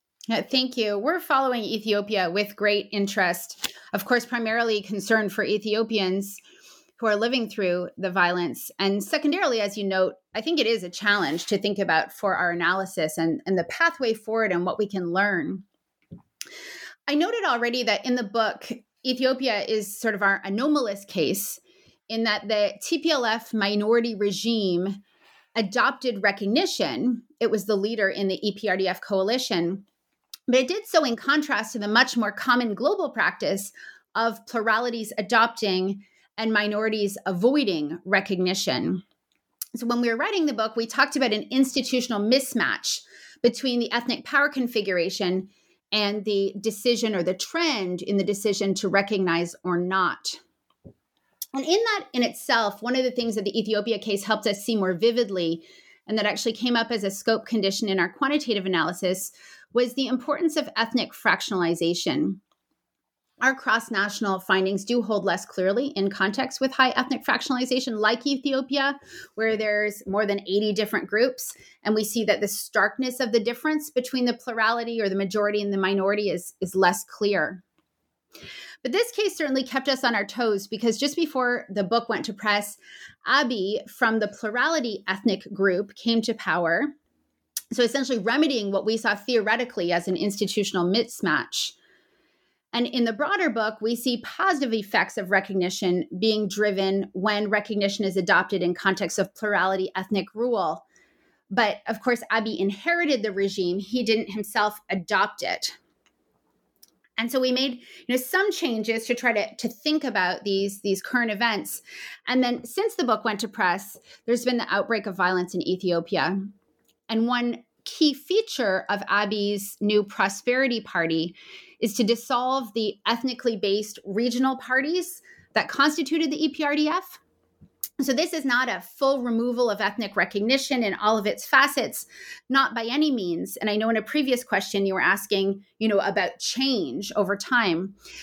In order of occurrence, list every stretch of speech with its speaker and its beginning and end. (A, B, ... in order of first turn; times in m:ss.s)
0:00.3-0:06.4 A
0:07.0-0:15.6 A
0:17.1-0:25.0 A
0:25.5-0:29.8 A
0:30.5-0:39.0 A
0:39.7-0:50.4 A
0:51.5-1:02.4 A
1:03.4-1:17.6 A
1:18.8-1:26.9 A
1:27.7-1:31.8 A
1:32.7-1:40.8 A
1:41.5-1:45.8 A
1:47.2-1:56.4 A
1:57.1-2:07.2 A
2:08.0-2:18.0 A